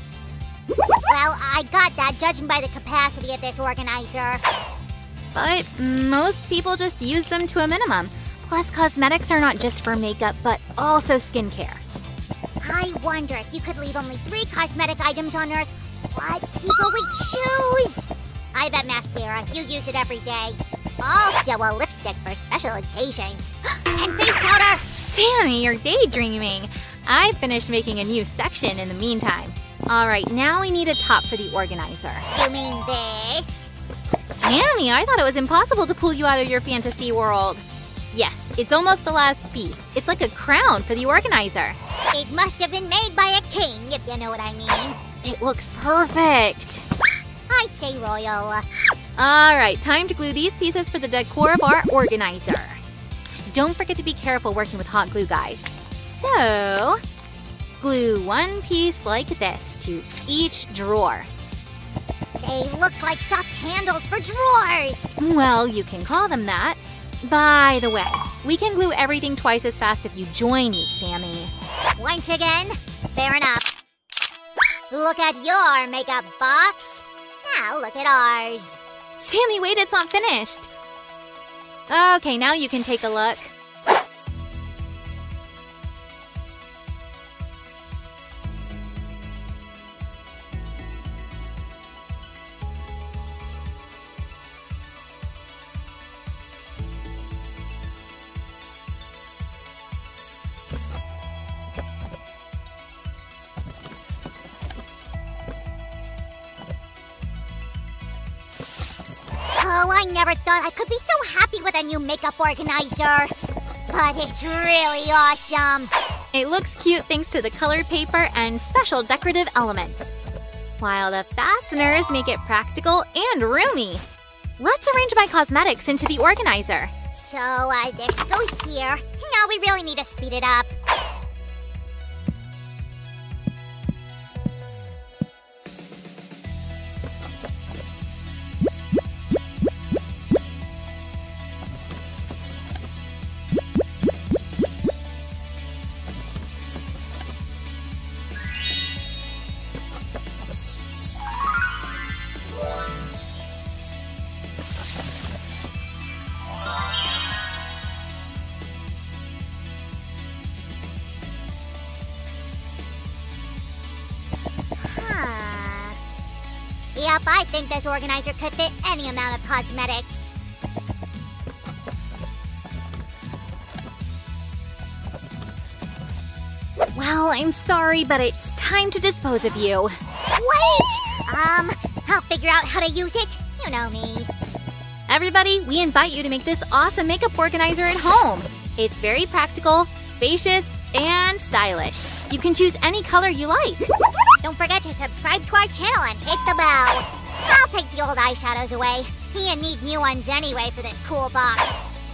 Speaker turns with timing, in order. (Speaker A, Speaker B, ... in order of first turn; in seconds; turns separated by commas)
Speaker A: 1.1-4.4, Speaker B: 5.3-11.8, Speaker A: 12.6-24.9, Speaker B: 24.9-32.3, Speaker A: 32.3-33.7, Speaker B: 34.2-41.8, Speaker A: 42.1-45.0, Speaker B: 45.2-46.8, Speaker A: 47.5-48.6, Speaker B: 49.2-52.8, Speaker B: 53.5-57.0, Speaker B: 57.8-61.3, Speaker A: 62.4-65.2, Speaker B: 65.2-71.5, Speaker A: 72.0-73.7, Speaker A: 74.9-78.8, Speaker B: 79.2-80.7, Speaker B: 81.9-83.5, Speaker A: 109.5-113.3, Speaker A: 113.9-115.9, Speaker B: 116.3-120.1, Speaker B: 120.8-124.0, Speaker B: 124.6-126.9, Speaker A: 127.1-130.7, Speaker A: 164.8-166.0, Speaker A: 166.9-170.3, Speaker B: 176.9-180.0, Speaker A: 180.3-184.3, Speaker B: 185.1-193.9, Speaker A: 194.4-201.9